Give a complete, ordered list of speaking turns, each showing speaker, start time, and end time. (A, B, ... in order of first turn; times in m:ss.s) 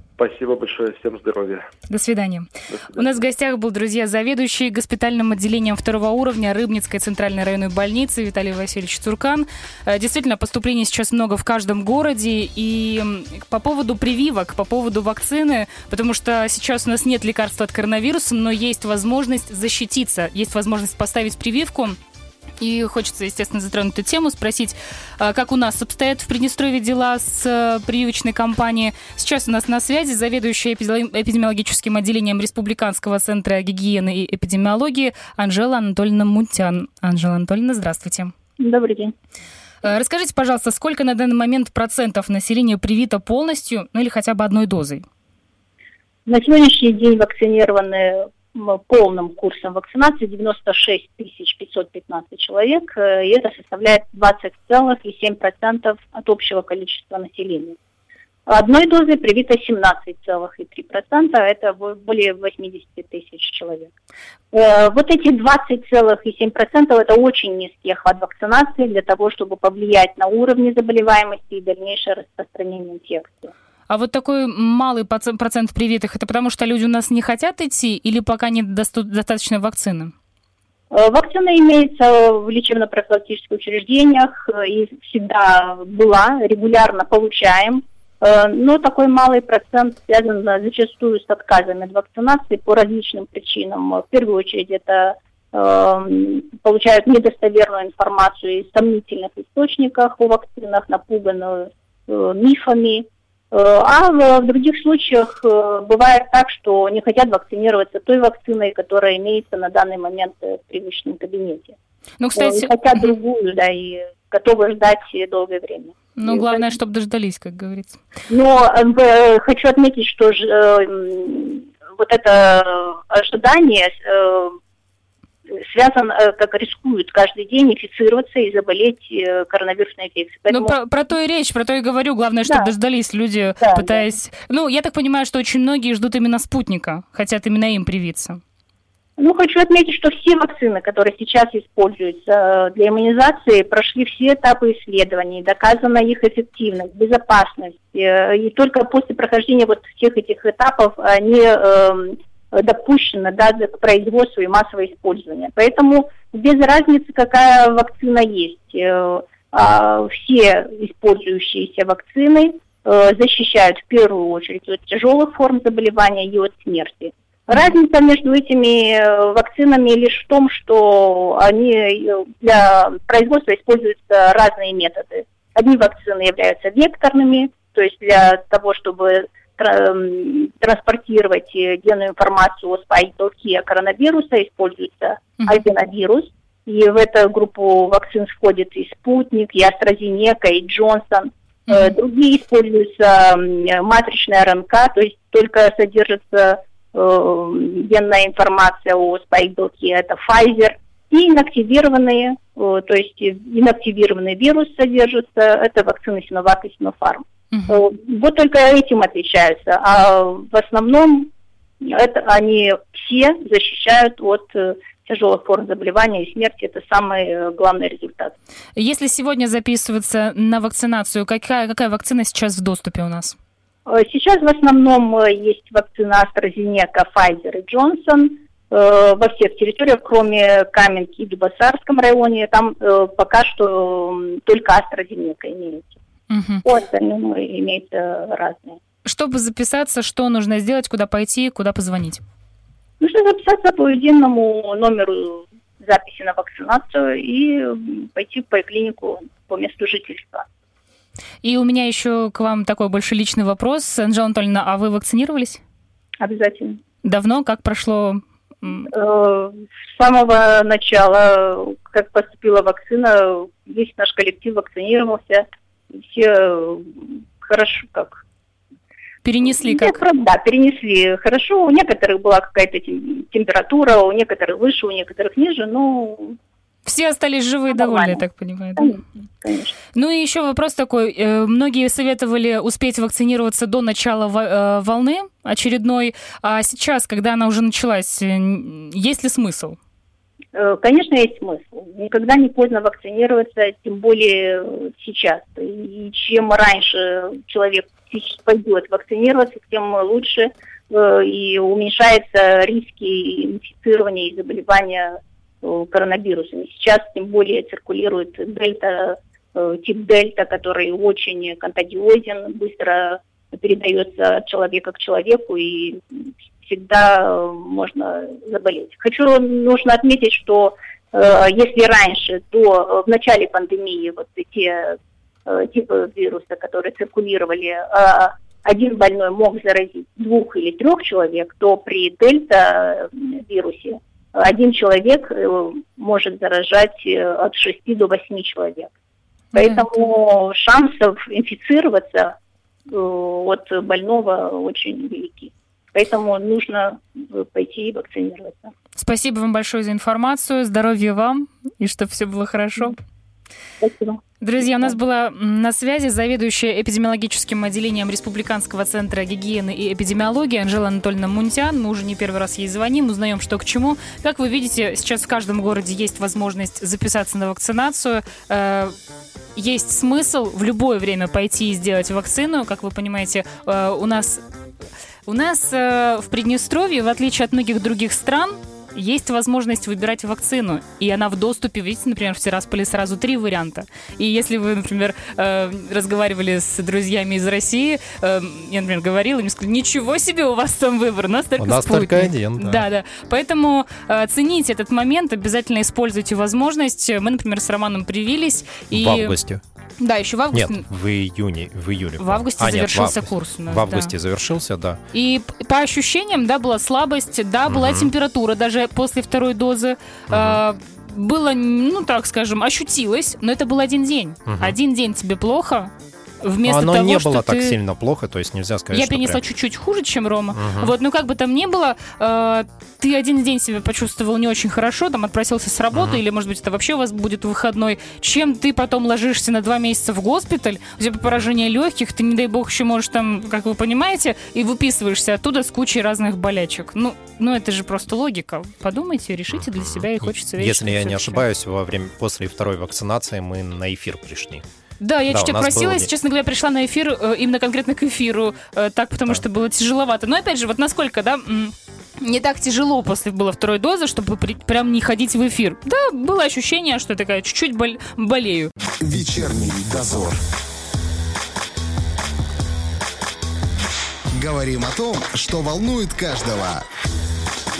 0:00.2-0:01.6 A
0:01.9-0:22.0 B
0:02.7-0:03.2 A
0:22.6-0:38.3 B
0:38.6-0:39.1 C
0:39.8-0:45.0 B
0:46.2-0:57.8 C
0:58.5-1:03.9 C
1:04.5-1:13.5 C
1:13.9-1:20.1 B
1:20.9-1:51.8 C
1:52.2-1:52.7 B
1:52.4-1:56.7 C
1:56.2-1:58.0 B
1:58.3-2:04.6 C
2:05.5-2:10.7 C
2:10.5-2:18.4 B
2:13.6-2:14.0 C
2:19.2-3:31.3 C
3:11.7-3:11.9 B
3:27.5-3:27.8 B
3:31.8-3:38.3 C
3:38.8-3:43.4 B
3:43.8-3:55.9 C
3:56.3-3:56.6 B
3:56.6-3:58.8 C
3:59.0-4:02.2 B
4:03.0-4:10.4 C
4:11.4-4:15.6 B
4:16.2-4:16.8 C
4:17.0-4:18.9 B
4:18.9-4:28.2 C
4:29.2-4:30.0 B
4:29.5-4:36.4 C
4:36.8-4:39.0 B
4:37.7-4:38.2 C
4:38.8-4:39.8 C
4:39.9-4:49.8 B
4:50.5-5:38.9 C
5:39.5-5:39.8 B
5:39.6-5:42.3 C
5:42.9-5:48.7 C
5:49.0-5:53.0 B
5:53.8-5:55.0 C
5:54.4-6:08.9 B
6:09.6-6:14.4 B
6:15.2-6:39.4 B
6:31.6-6:32.8 D
6:38.9-6:39.6 D
6:40.0-6:40.8 B
6:40.5-6:45.0 D
6:42.2-6:44.2 B
6:45.1-6:57.7 B
6:47.6-6:48.1 D
6:50.3-6:50.6 D
6:54.4-6:54.8 D
6:56.6-6:59.4 D
6:58.9-7:21.4 B
7:00.5-7:00.9 D
7:05.9-7:06.2 D
7:19.5-7:24.6 D
7:25.0-7:38.7 B
7:25.2-7:26.1 D
7:39.0-7:40.4 E
7:44.4-7:46.8 E